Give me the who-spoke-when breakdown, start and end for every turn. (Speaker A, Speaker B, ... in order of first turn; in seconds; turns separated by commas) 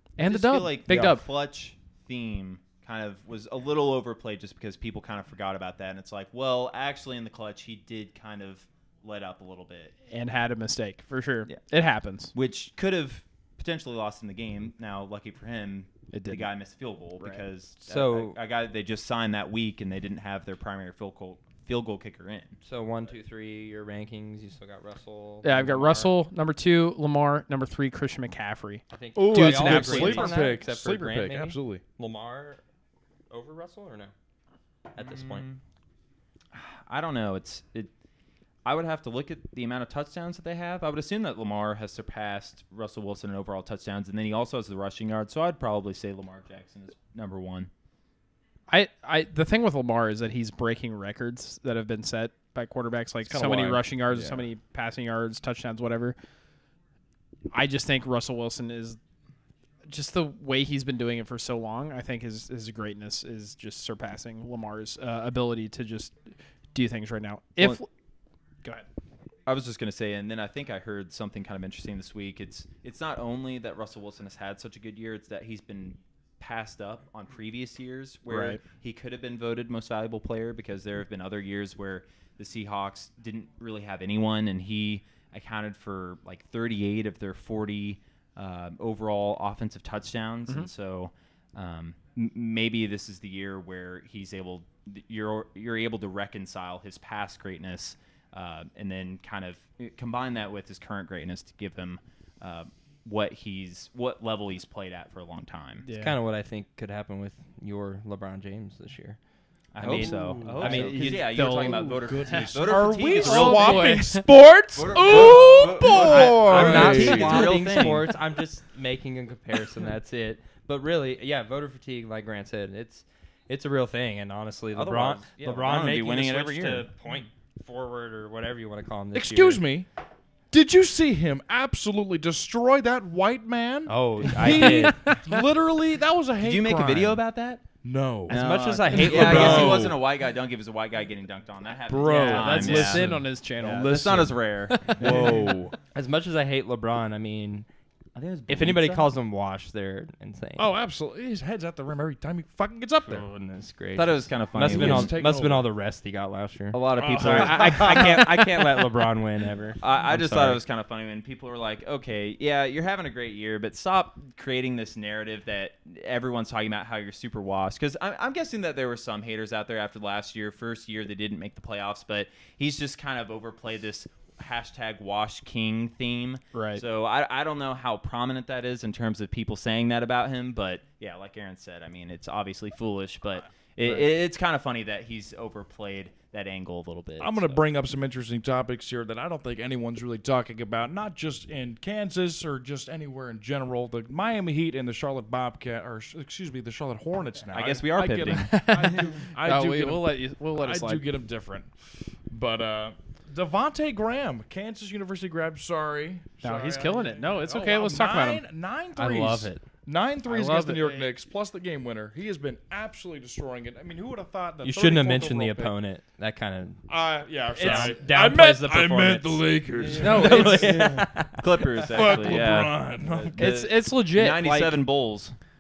Speaker A: 0.2-1.2, Speaker B: 0.2-9.9, Speaker A: 10.1-12.3, Speaker B: 12.3-22.6, Speaker A: 16.1-16.5, Speaker C: 17.8-18.4, Speaker C: 22.6-26.1, Speaker A: 25.4-28.8, Speaker C: 28.9-32.6, Speaker D: 29.2-31.8, Speaker B: 29.3-30.4, Speaker C: 33.3-34.1, Speaker C: 35.0-35.5, Speaker B: 35.0-35.6, Speaker B: 36.5-37.9, Speaker B: 38.6-47.7, Speaker A: 48.7-56.2, Speaker D: 53.3-54.5, Speaker A: 57.5-59.0, Speaker A: 59.9-66.2, Speaker A: 66.7-67.9, Speaker B: 69.5-105.9, Speaker A: 78.3-78.6, Speaker A: 105.8-106.2, Speaker C: 105.9-109.2, Speaker B: 109.7-114.0, Speaker C: 109.8-111.2, Speaker A: 110.0-114.2, Speaker D: 112.2-117.6, Speaker B: 114.8-118.1, Speaker C: 115.1-129.6, Speaker B: 124.7-126.9, Speaker D: 129.1-129.9, Speaker D: 130.5-137.2, Speaker C: 133.9-135.1, Speaker A: 134.3-135.4, Speaker B: 136.4-137.6, Speaker D: 137.8-140.0, Speaker C: 138.3-139.9, Speaker B: 138.3-143.0, Speaker D: 141.9-145.7, Speaker A: 142.1-145.5, Speaker B: 143.6-145.3, Speaker C: 145.9-147.7, Speaker B: 148.2-149.1, Speaker C: 148.5-150.7, Speaker D: 150.6-153.3, Speaker C: 153.1-160.6, Speaker B: 153.9-155.2, Speaker D: 154.6-155.7, Speaker B: 156.7-158.8, Speaker D: 157.0-158.0, Speaker A: 157.4-158.2, Speaker B: 159.8-187.6, Speaker A: 176.5-176.8, Speaker D: 187.2-215.8, Speaker B: 197.5-198.8, Speaker A: 198.4-201.1, Speaker A: 206.4-208.4, Speaker C: 209.0-209.6, Speaker A: 210.3-211.1, Speaker C: 214.6-216.8, Speaker D: 216.9-221.1, Speaker A: 217.5-217.9, Speaker C: 217.6-222.2, Speaker A: 219.9-220.9, Speaker B: 221.4-225.4, Speaker D: 221.9-223.5, Speaker A: 223.4-224.8